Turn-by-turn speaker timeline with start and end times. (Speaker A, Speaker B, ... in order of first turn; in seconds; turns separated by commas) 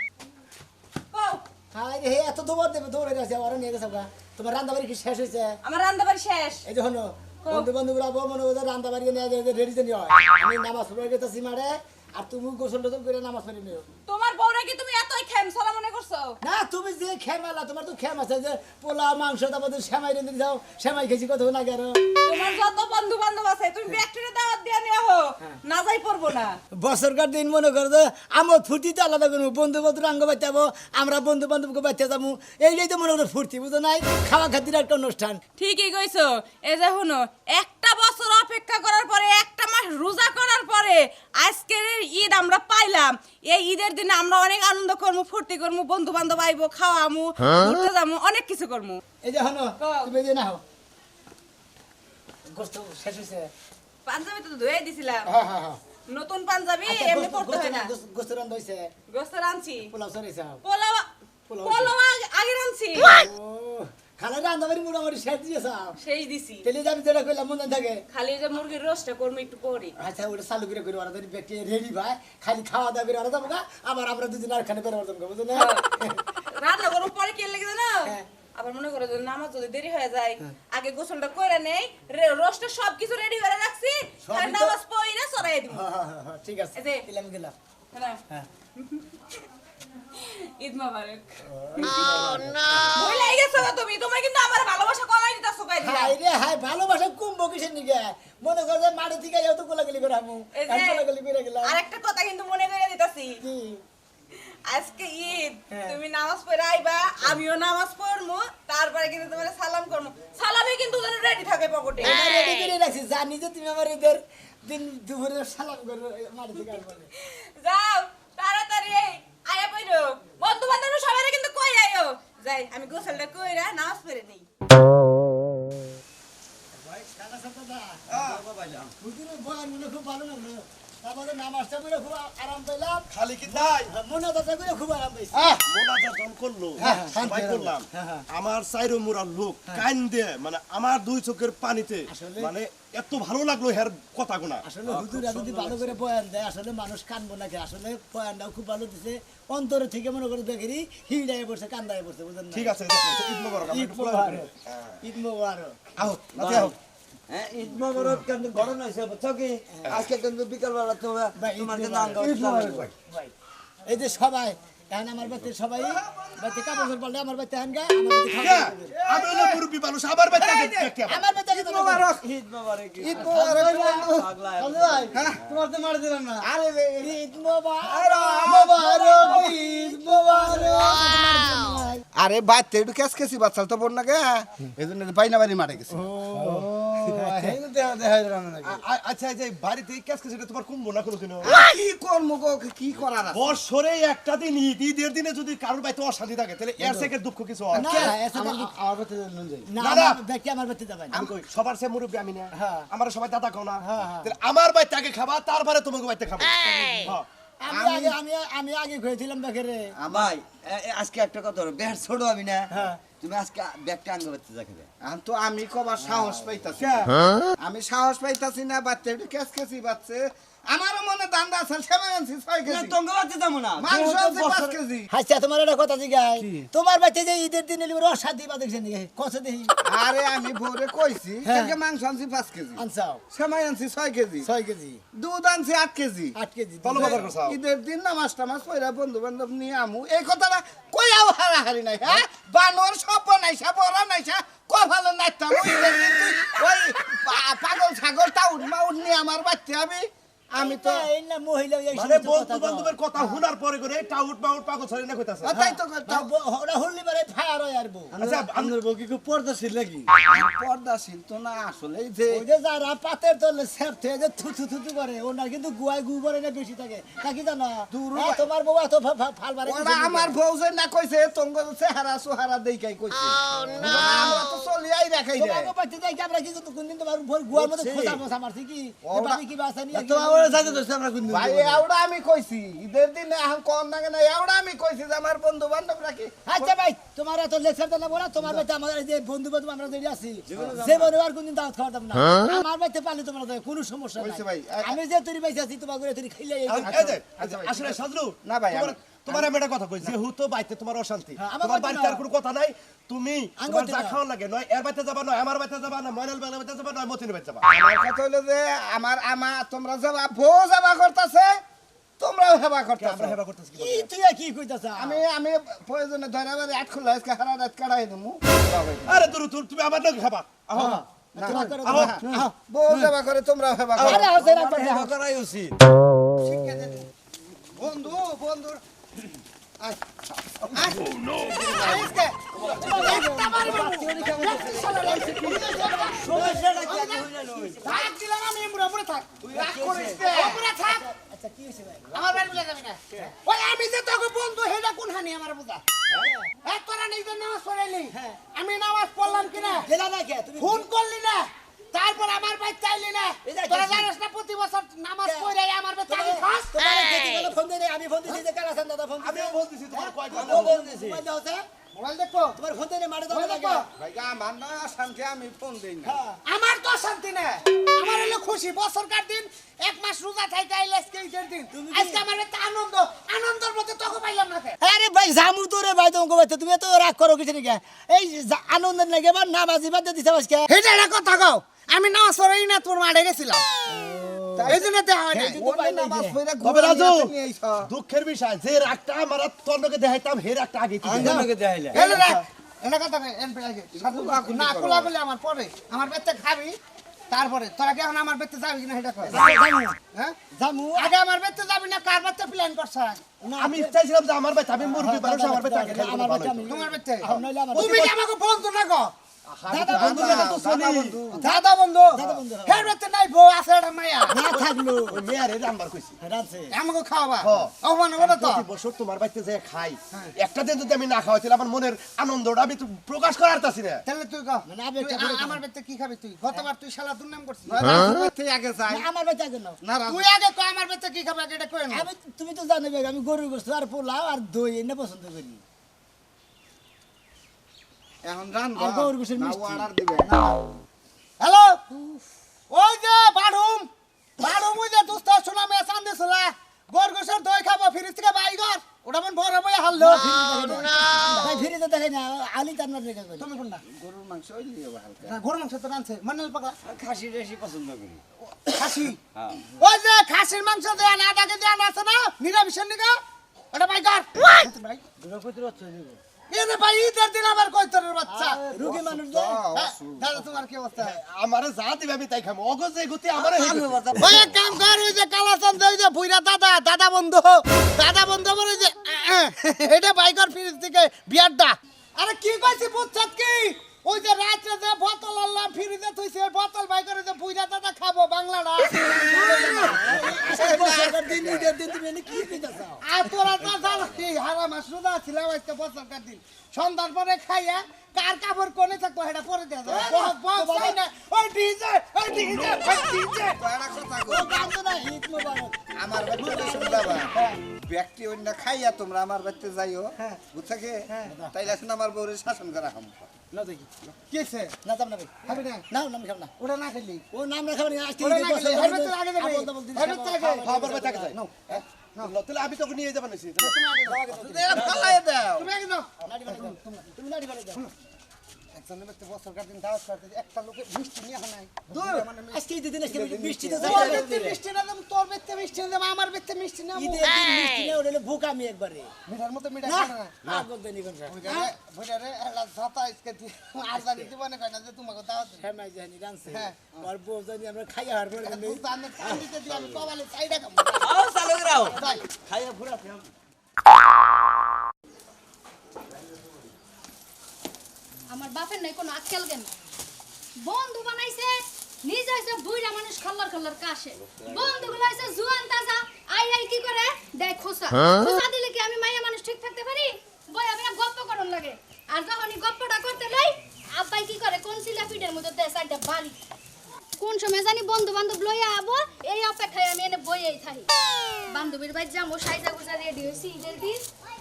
Speaker A: 1.1-1.4, Speaker B: 1.7-5.6, Speaker A: 5.6-6.6, Speaker B: 6.6-13.8, Speaker A: 14.1-16.3, Speaker B: 16.4-22.0, Speaker A: 22.2-26.6, Speaker B: 26.7-35.4, Speaker A: 35.6-49.0, Speaker B: 49.2-50.6, Speaker A: 49.8-50.1, Speaker B: 52.5-53.5, Speaker A: 54.0-55.3, Speaker B: 55.2-55.8, Speaker A: 56.1-57.9, Speaker B: 56.8-58.9, Speaker A: 59.1-59.9, Speaker B: 59.8-60.6, Speaker A: 60.6-61.1, Speaker B: 61.5-61.9, Speaker A: 61.6-63.1, Speaker B: 62.9-66.0, Speaker A: 66.0-66.7, Speaker B: 66.6-68.0, Speaker A: 68.1-69.9, Speaker B: 70.0-76.2, Speaker A: 75.5-75.8, Speaker A: 76.5-85.8, Speaker B: 84.2-84.8, Speaker B: 85.7-87.5, Speaker A: 86.8-87.0, Speaker A: 87.9-88.2, Speaker A: 90.1-92.2, Speaker B: 91.5-92.5, Speaker A: 92.9-96.2, Speaker B: 95.8-101.8, Speaker A: 100.5-101.0, Speaker A: 101.6-103.4, Speaker B: 103.4-103.8, Speaker A: 104.3-112.2, Speaker B: 105.7-106.0, Speaker B: 112.0-117.1, Speaker A: 117.2-124.4, Speaker B: 126.8-128.0, Speaker C: 128.2-128.9, Speaker B: 128.8-135.5, Speaker D: 133.1-133.9, Speaker D: 135.6-145.9, Speaker B: 136.8-138.2, Speaker E: 136.8-137.1, Speaker B: 142.1-142.5, Speaker B: 144.6-152.8, Speaker D: 152.5-154.5, Speaker B: 153.7-154.5, Speaker B: 155.0-155.9, Speaker D: 156.0-156.7, Speaker C: 156.3-156.7, Speaker C: 157.3-162.9, Speaker B: 159.7-160.0, Speaker B: 161.3-162.5, Speaker B: 163.8-168.9, Speaker D: 168.3-171.3, Speaker F: 169.0-169.6, Speaker F: 170.3-170.9, Speaker B: 171.1-172.0, Speaker F: 171.5-172.2, Speaker C: 172.2-175.9, Speaker F: 173.0-174.3, Speaker F: 175.1-175.4, Speaker E: 175.5-176.4, Speaker F: 176.4-177.2, Speaker B: 177.0-182.0, Speaker F: 177.8-179.5, Speaker E: 178.8-179.5, Speaker F: 182.1-187.2, Speaker B: 186.1-187.5, Speaker E: 186.4-186.6, Speaker E: 187.2-188.8, Speaker D: 188.6-191.6, Speaker F: 191.4-193.6, Speaker D: 193.2-198.1, Speaker B: 197.7-198.7, Speaker E: 198.0-199.6, Speaker B: 199.7-201.3, Speaker D: 199.8-200.2, Speaker D: 201.1-207.2, Speaker B: 202.6-202.8, Speaker B: 203.8-204.1, Speaker B: 207.6-209.9, Speaker F: 207.7-208.2, Speaker F: 210.0-210.3, Speaker C: 210.1-214.9, Speaker B: 212.7-213.0, Speaker F: 215.0-223.0, Speaker C: 216.8-217.1, Speaker C: 222.6-224.7, Speaker F: 223.8-225.1, Speaker B: 225.1-229.7, Speaker F: 229.8-234.5, Speaker B: 231.4-231.8, Speaker B: 232.7-233.2, Speaker B: 234.4-235.0, Speaker F: 235.1-236.3, Speaker B: 236.3-237.2, Speaker D: 236.8-237.6, Speaker F: 236.9-251.1, Speaker B: 250.6-253.0, Speaker D: 251.9-255.6, Speaker F: 255.4-256.3, Speaker B: 255.5-258.1, Speaker C: 258.1-260.1, Speaker D: 258.1-258.8, Speaker F: 260.2-262.4, Speaker B: 262.3-270.4, Speaker F: 267.9-268.4, Speaker F: 269.6-275.7, Speaker B: 275.4-280.8, Speaker C: 277.7-278.2, Speaker F: 279.0-279.4, Speaker C: 280.2-281.7, Speaker F: 281.2-286.7, Speaker B: 286.4-297.2, Speaker C: 290.5-291.1, Speaker F: 294.2-294.9, Speaker D: 296.7-307.7, Speaker F: 296.8-299.5, Speaker B: 301.4-302.2, Speaker B: 303.6-304.2, Speaker F: 307.7-311.6, Speaker F: 312.2-313.4, Speaker D: 313.0-314.0, Speaker B: 313.7-315.2, Speaker F: 315.0-319.3, Speaker D: 319.1-321.0, Speaker B: 320.7-323.0, Speaker F: 321.3-324.3, Speaker D: 321.7-322.2, Speaker C: 324.0-325.7, Speaker B: 324.0-325.1, Speaker E: 326.4-327.1, Speaker E: 327.8-328.8, Speaker E: 331.5-332.4, Speaker F: 331.7-332.0, Speaker B: 332.8-338.0, Speaker C: 332.8-333.1, Speaker E: 333.0-336.1, Speaker F: 334.2-335.6, Speaker C: 336.1-337.9, Speaker E: 336.8-337.2, Speaker E: 337.8-341.0, Speaker F: 339.4-340.6, Speaker B: 339.5-342.2, Speaker E: 342.1-345.8, Speaker B: 346.1-346.5, Speaker E: 346.6-349.9, Speaker B: 348.1-348.4, Speaker B: 349.3-350.9, Speaker E: 350.6-356.7, Speaker B: 353.4-354.1, Speaker B: 355.2-355.5, Speaker B: 356.1-361.6, Speaker D: 359.2-360.8, Speaker C: 360.5-361.2, Speaker E: 361.9-362.6, Speaker B: 362.6-363.9, Speaker E: 363.3-363.8, Speaker F: 363.8-366.2, Speaker B: 366.0-366.4, Speaker E: 366.4-374.7, Speaker B: 371.7-372.2, Speaker B: 374.8-380.7, Speaker E: 380.7-383.6, Speaker B: 383.9-384.8, Speaker F: 384.6-387.9, Speaker E: 384.7-385.6, Speaker B: 385.4-386.4, Speaker D: 386.6-391.5, Speaker C: 391.0-392.0, Speaker B: 391.1-391.5, Speaker E: 391.9-396.8, Speaker F: 393.9-395.1, Speaker E: 397.3-399.4, Speaker B: 399.2-399.9, Speaker D: 399.3-399.6, Speaker B: 400.5-401.1, Speaker E: 400.9-403.2, Speaker B: 403.4-404.0, Speaker D: 403.6-406.8, Speaker B: 404.8-408.1, Speaker E: 406.7-409.1, Speaker D: 407.8-408.1, Speaker D: 409.4-411.4, Speaker E: 409.7-410.6, Speaker F: 409.7-411.6, Speaker E: 411.3-414.6, Speaker B: 412.1-412.9, Speaker B: 414.3-415.2, Speaker D: 415.1-416.2, Speaker B: 416.2-416.7, Speaker E: 416.7-418.6, Speaker D: 417.4-424.0, Speaker E: 424.1-427.8, Speaker B: 424.7-425.6, Speaker F: 427.7-429.0, Speaker B: 428.9-429.8, Speaker F: 429.8-430.2, Speaker E: 430.1-432.0, Speaker B: 431.9-435.6, Speaker F: 438.2-440.6, Speaker B: 438.8-439.9, Speaker E: 441.4-441.8, Speaker E: 442.7-451.5, Speaker B: 450.0-450.9, Speaker B: 451.4-453.5, Speaker E: 453.4-453.8, Speaker F: 453.9-455.4, Speaker E: 455.2-456.8, Speaker C: 456.8-458.2, Speaker E: 458.7-459.2, Speaker C: 459.3-459.6, Speaker E: 459.8-463.2, Speaker E: 463.7-465.0, Speaker C: 465.2-466.2, Speaker E: 466.5-468.7, Speaker B: 468.3-469.6, Speaker F: 468.8-470.6, Speaker E: 469.7-471.2, Speaker D: 471.0-474.5, Speaker C: 473.6-473.9, Speaker E: 474.2-490.0, Speaker B: 489.4-493.0, Speaker F: 489.6-491.7, Speaker E: 493.0-503.6, Speaker F: 499.9-500.2, Speaker B: 499.9-501.0, Speaker F: 503.6-504.7, Speaker B: 504.2-505.8, Speaker F: 505.9-513.2, Speaker B: 506.3-507.3, Speaker E: 513.5-514.7, Speaker B: 514.8-516.5, Speaker E: 515.4-515.8, Speaker E: 516.6-517.2, Speaker B: 517.3-521.4, Speaker E: 518.2-520.6, Speaker D: 520.6-521.6, Speaker E: 521.5-522.2, Speaker D: 522.1-523.8, Speaker E: 523.6-524.7, Speaker B: 524.0-525.2, Speaker F: 524.4-525.7, Speaker E: 525.5-526.9, Speaker B: 526.2-527.8, Speaker E: 528.7-532.5, Speaker F: 531.9-532.4, Speaker B: 532.5-534.6, Speaker F: 533.0-534.4, Speaker E: 533.8-537.2, Speaker B: 536.9-539.1, Speaker E: 539.3-540.6, Speaker B: 539.8-541.6, Speaker E: 541.3-545.6, Speaker B: 544.0-544.3, Speaker B: 545.5-549.5, Speaker E: 546.5-546.9, Speaker E: 548.4-551.0, Speaker F: 549.2-550.9, Speaker C: 551.0-553.3, Speaker G: 558.3-559.7, Speaker G: 560.6-576.3, Speaker G: 577.2-580.9, Speaker G: 581.5-584.0